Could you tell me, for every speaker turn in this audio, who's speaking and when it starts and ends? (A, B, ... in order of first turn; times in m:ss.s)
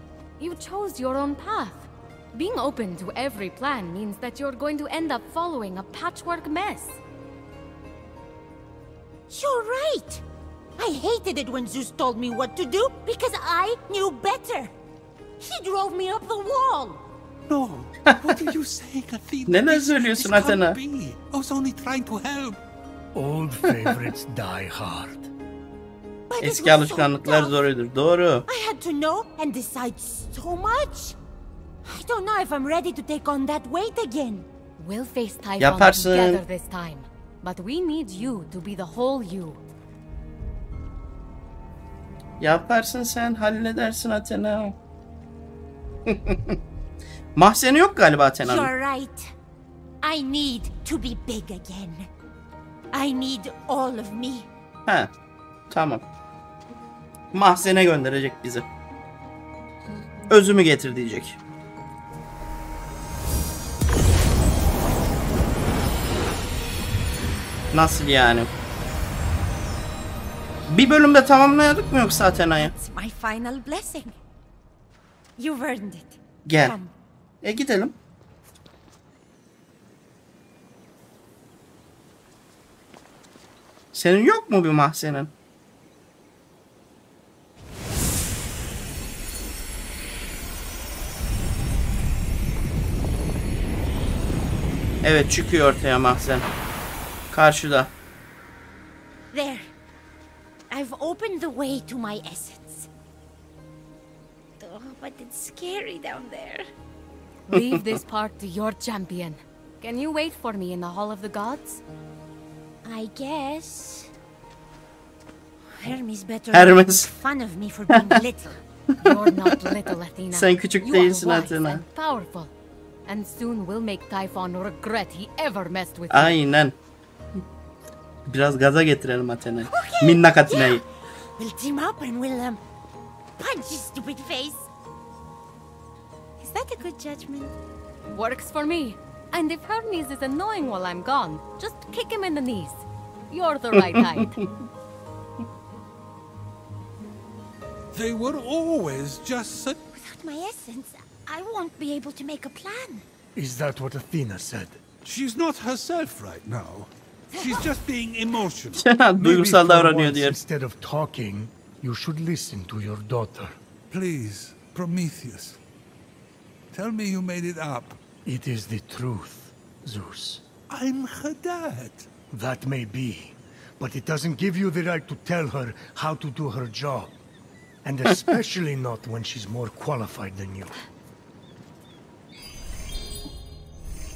0:00.4-0:07.0 A
0:09.3-0:10.2 B
0:10.8-0:14.7 B
0:15.4-0:17.0 B
0:17.5-0:22.6 C
0:18.0-0:18.5 D
0:19.5-0:20.8 D
0:23.1-0:25.3 E
0:26.3-0:27.6 B
0:26.4-0:28.4 D
0:28.5-0:31.2 B
0:31.8-0:34.5 B
0:34.8-0:39.6 A
0:35.6-0:36.4 D
0:42.4-0:44.8 D
0:46.0-0:46.6 D
0:47.4-0:48.7 D
0:48.4-0:49.3 B
0:50.0-0:52.1 B
0:52.9-0:54.5 B
0:54.9-0:55.1 D
0:55.7-0:56.0 D
0:57.3-0:58.6 D
1:00.3-1:01.4 D
1:07.7-1:08.5 D
1:10.7-1:12.7 D
1:12.6-1:14.1 B
1:15.4-1:16.9 B
1:16.4-1:16.8 D
1:17.4-1:18.0 D
1:23.9-1:25.3 D
1:35.0-1:36.5 D
1:37.3-1:37.9 D
1:39.3-1:39.7 B
1:40.7-1:42.9 B
1:44.6-1:46.7 B
1:47.5-1:51.8 A
1:47.5-1:48.0 D
1:52.8-1:54.1 B
1:55.7-1:58.6 B
1:56.5-1:57.1 D
1:57.9-1:58.2 D
1:58.9-1:59.7 D
1:59.0-2:02.5 A
2:00.3-2:01.8 D
2:03.0-2:06.4 A
2:06.1-2:06.7 D
2:08.3-2:10.8 D
2:09.7-2:10.8 B
2:11.4-2:12.6 B
2:13.4-2:14.7 B
2:16.4-2:17.5 B
2:18.1-2:24.4 A
2:27.9-2:29.8 C
2:29.9-2:33.0 B
2:33.4-2:34.8 E
2:35.0-2:38.8 C
2:38.8-2:40.4 D
2:39.2-2:43.6 E
2:43.9-2:45.6 C
2:46.7-2:48.0 C
2:48.2-2:50.4 E
2:50.7-2:52.1 C
2:52.3-2:57.2 E
2:57.8-3:00.8 E